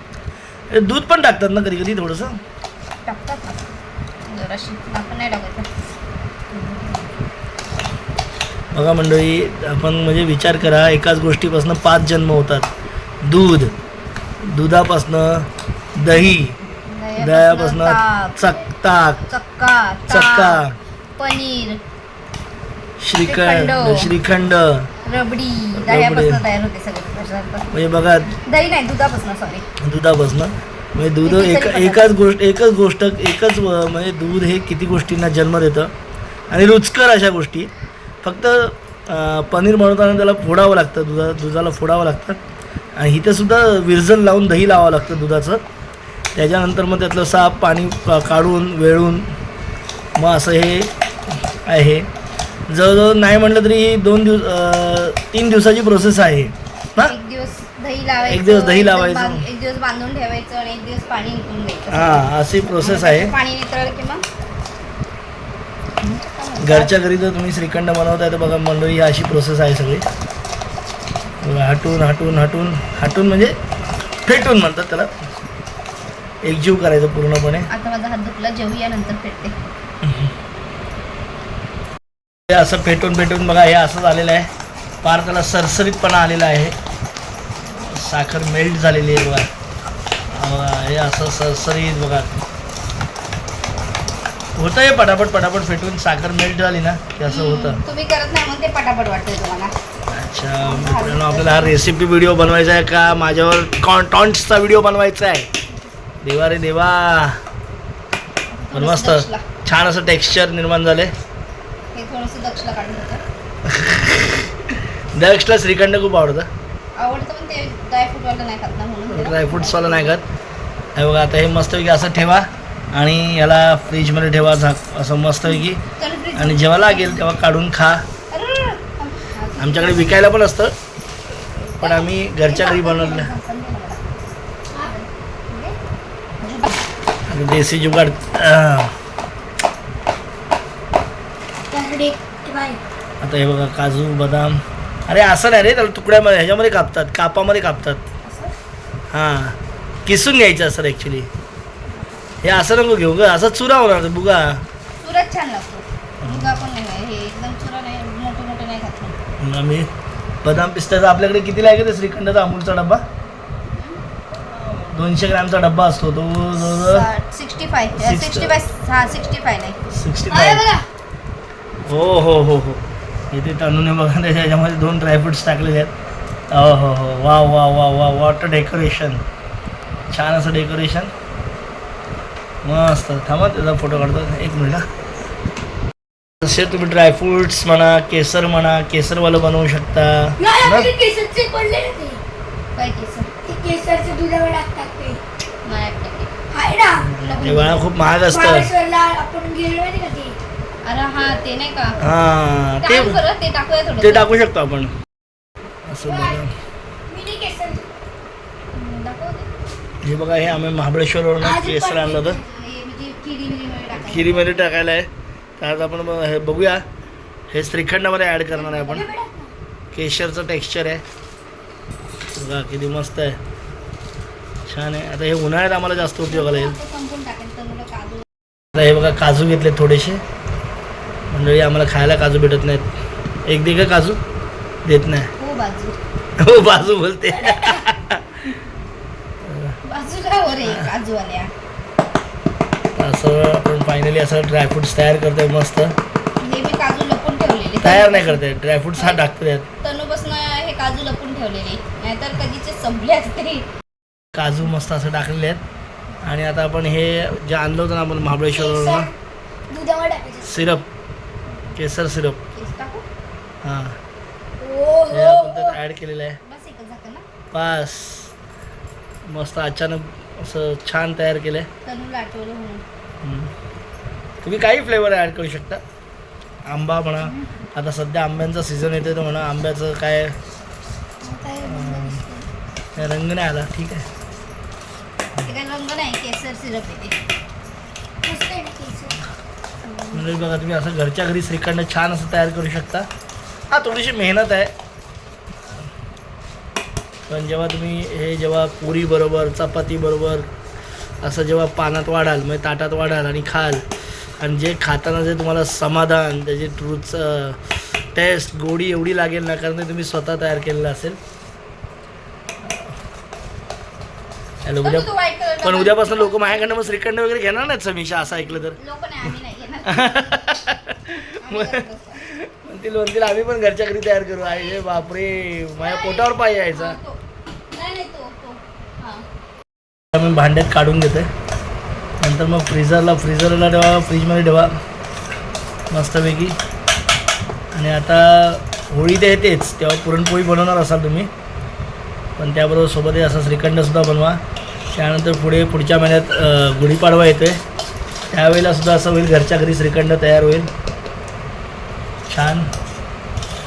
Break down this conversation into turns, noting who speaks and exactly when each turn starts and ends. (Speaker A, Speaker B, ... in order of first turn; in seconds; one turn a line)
Speaker A: 0.7-2.4
Speaker B: 3.0-3.7
Speaker B: 4.2-5.7
Speaker A: 8.7-12.7
Speaker A: 13.2-13.7
Speaker A: 14.4-16.6
Speaker B: 16.9-18.4
Speaker A: 17.2-19.2
Speaker B: 19.2-20.6
Speaker A: 20.1-20.8
Speaker B: 21.2-21.8
Speaker A: 23.0-24.9
Speaker B: 23.2-24.1
Speaker B: 25.0-27.7
Speaker A: 25.7-26.4
Speaker A: 27.7-28.3
Speaker B: 28.4-29.6
Speaker A: 29.8-35.9
Speaker B: 31.2-32.2
Speaker A: 36.5-37.7
Speaker A: 38.2-42.4
Speaker A: 43.0-45.6
Speaker A: 46.3-49.3
Speaker A: 50.1-52.1
Speaker A: 52.7-57.1
Speaker B: 57.0-64.2
Speaker A: 58.3-59.5
Speaker A: 61.9-63.3
Speaker B: 66.0-66.9
Speaker A: 66.6-70.0
Speaker A: 71.4-73.5
Speaker A: 74.2-75.2
Speaker A: 76.4-77.7
Speaker B: 77.7-79.5
Speaker A: 80.0-80.3
Speaker A: 82.5-84.5
Speaker A: 85.0-86.8
Speaker A: 87.8-89.5
Speaker A: 90.3-92.3
Speaker A: 94.5-97.8
Speaker B: 97.2-99.7
Speaker A: 100.1-105.5
Speaker B: 100.6-101.8
Speaker A: 106.2-107.4
Speaker B: 108.5-109.5
Speaker A: 108.7-111.1
Speaker B: 111.9-113.2
Speaker A: 113.6-116.5
Speaker B: 117.0-120.2
Speaker A: 119.1-120.2
Speaker A: 120.9-125.8
Speaker B: 126.0-127.3
Speaker A: 126.3-128.0
Speaker B: 128.3-130.3
Speaker A: 129.6-130.7
Speaker B: 131.4-135.8
Speaker A: 131.8-133.3
Speaker B: 136.4-136.8
Speaker A: 137.3-138.9
Speaker C: 141.7-142.8
Speaker A: 143.2-148.0
Speaker B: 148.2-148.5
Speaker A: 149.1-151.3
Speaker B: 151.9-152.2
Speaker A: 152.4-154.6
Speaker B: 155.0-159.2
Speaker A: 156.2-156.6
Speaker A: 159.4-159.9
Speaker A: 160.4-163.0
Speaker B: 163.7-164.0
Speaker A: 164.5-167.1
Speaker B: 166.6-169.8
Speaker A: 167.9-168.6
Speaker A: 169.9-170.7
Speaker C: 170.3-170.7
Speaker A: 171.8-175.9
Speaker A: 176.5-179.2
Speaker A: 180.1-181.1
Speaker A: 182.6-184.8
Speaker A: 186.4-190.9
Speaker C: 190.4-192.2
Speaker B: 192.8-193.3
Speaker C: 193.4-195.2
Speaker B: 195.6-196.3
Speaker C: 196.5-197.1
Speaker A: 197.0-198.7
Speaker B: 197.2-197.8
Speaker C: 198.3-200.4
Speaker B: 200.8-202.0
Speaker A: 202.0-203.2
Speaker B: 202.8-204.3
Speaker A: 204.0-204.9
Speaker A: 205.8-206.5
Speaker C: 206.0-206.4
Speaker C: 207.1-207.8
Speaker B: 208.7-209.5
Speaker A: 210.0-212.4
Speaker C: 211.4-212.4
Speaker B: 212.3-214.7
Speaker A: 214.0-216.8
Speaker A: 217.5-219.1
Speaker C: 218.6-219.5
Speaker A: 219.9-221.0
Speaker A: 222.3-223.4
Speaker A: 224.7-226.7
Speaker B: 226.2-228.2
Speaker A: 228.7-230.2
Speaker A: 231.3-232.9
Speaker A: 233.4-234.2
Speaker A: 234.8-235.3
Speaker B: 235.4-236.0
Speaker A: 236.4-238.5
Speaker B: 237.4-237.8
Speaker A: 239.4-239.8
Speaker B: 239.8-241.5
Speaker A: 240.6-240.9
Speaker A: 243.0-245.9
Speaker B: 246.4-248.4
Speaker A: 247.8-249.7
Speaker B: 248.9-249.2
Speaker B: 249.8-253.7
Speaker A: 254.3-255.6
Speaker A: 256.2-259.1
Speaker C: 258.5-259.1
Speaker C: 259.7-260.8
Speaker A: 260.4-260.9
Speaker A: 261.8-262.4
Speaker B: 262.5-263.1
Speaker A: 263.6-264.0
Speaker C: 264.6-265.8
Speaker A: 265.1-266.4
Speaker B: 266.4-267.2
Speaker A: 267.5-268.3
Speaker A: 269.3-271.7
Speaker B: 271.8-272.8
Speaker A: 273.2-273.5
Speaker A: 274.4-275.8
Speaker A: 276.6-280.4
Speaker B: 277.2-277.5
Speaker B: 281.2-282.5
Speaker A: 281.6-282.2
Speaker A: 282.9-284.1
Speaker B: 285.4-287.2
Speaker C: 288.2-289.2
Speaker B: 289.8-290.3
Speaker A: 290.1-293.1
Speaker A: 293.7-294.7
Speaker A: 297.3-300.5
Speaker A: 301.2-303.8
Speaker A: 304.4-311.2
Speaker A: 312.6-312.9
Speaker A: 314.6-318.8
Speaker B: 314.8-316.9
Speaker B: 318.2-320.3
Speaker A: 319.9-327.0
Speaker B: 321.3-322.3
Speaker B: 325.8-327.2
Speaker B: 327.7-329.2
Speaker A: 330.1-331.3
Speaker A: 332.2-334.7
Speaker A: 335.9-336.6
Speaker A: 337.7-341.3
Speaker A: 342.4-347.6
Speaker A: 348.3-350.7
Speaker A: 352.3-352.7